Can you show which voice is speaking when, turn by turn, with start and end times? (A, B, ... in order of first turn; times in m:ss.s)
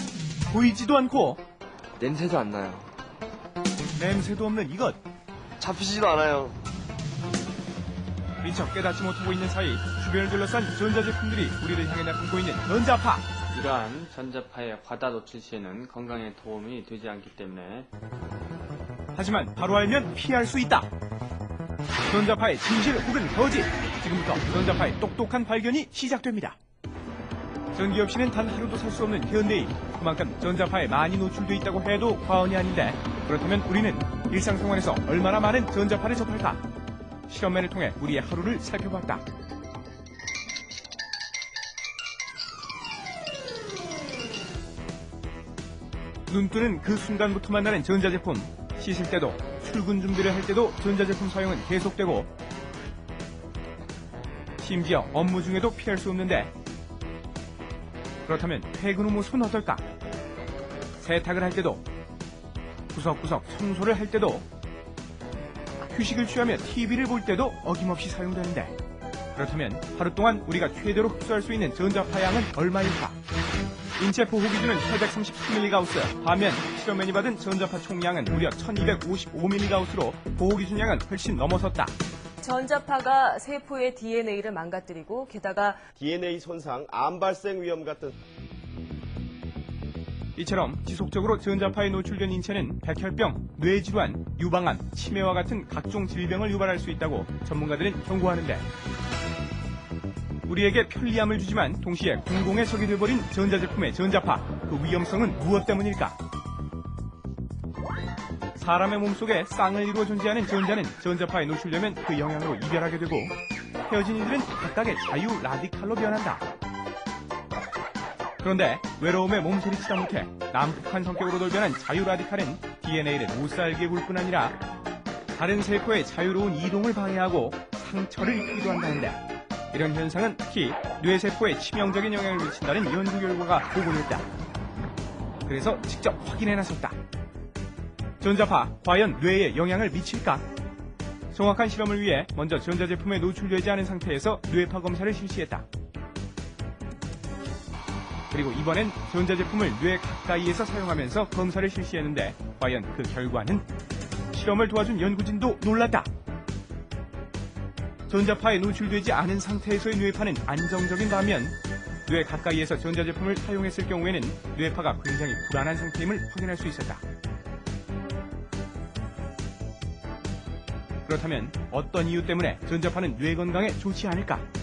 0:00.5-0:01.4 A
0:02.0-0:02.9 B
0:04.0-0:05.0 A
0:05.6-0:06.6 B
0:08.4-0:13.3 A
0:13.5-0:17.9 C
0:19.1-0:20.9 A
0:22.1-0:26.6 A
0:27.7-0:36.6 A
0:37.3-0:39.2 A
0:46.3-0:52.3 A
0:54.6-0:56.5 A
0:58.2-0:59.8 A
1:01.0-1:01.8 A
1:02.9-1:04.5 A
1:05.9-1:08.8 A
1:09.4-1:13.2 A
1:14.0-1:22.0 A
1:22.4-1:25.8 D
1:26.0-1:28.2 E
1:30.4-1:38.7 A
1:40.5-1:46.2 A
1:48.6-1:53.4 A
1:53.9-1:56.4 A
1:58.4-2:04.6 A
2:05.3-2:14.3 A
2:15.5-2:17.0 A
2:18.2-2:20.5 A
2:21.3-2:25.7 A
2:28.3-2:33.7 A
2:34.3-2:36.1 A
2:38.1-2:47.0 A
2:51.0-2:54.4 A